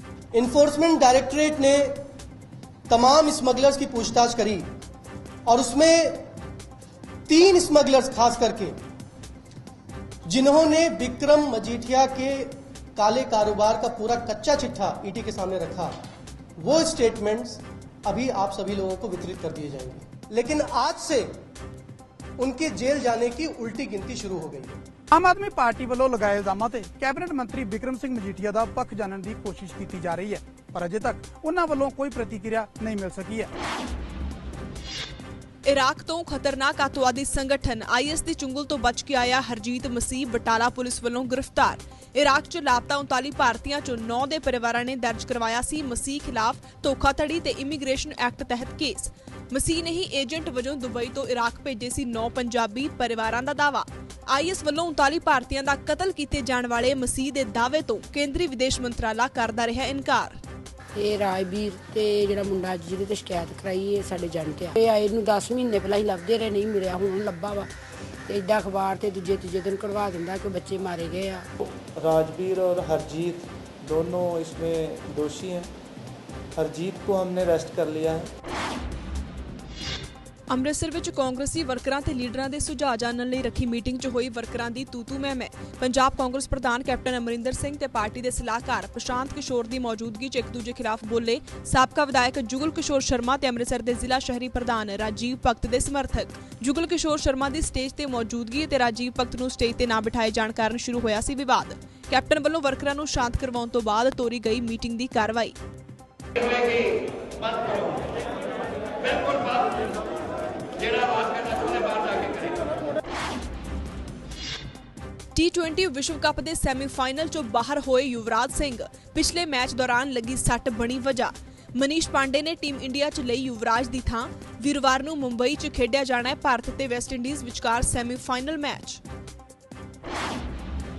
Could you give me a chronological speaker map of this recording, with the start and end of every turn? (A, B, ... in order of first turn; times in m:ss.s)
0:00.3-0:02.0 A
0:02.9-0:04.6 A
0:05.5-0:06.2 A
0:07.3-0:08.7 A
0:10.3-0:15.9 A
0:16.6-0:21.3 A
0:22.4-0:24.8 A
0:25.1-0:33.5 B
0:35.6-1:00.4 C
1:01.0-1:07.7 D
1:08.3-1:11.5 D
1:11.6-1:15.7 E
1:16.5-1:18.3 E
1:20.5-1:45.6 C
1:55.3-2:09.0 C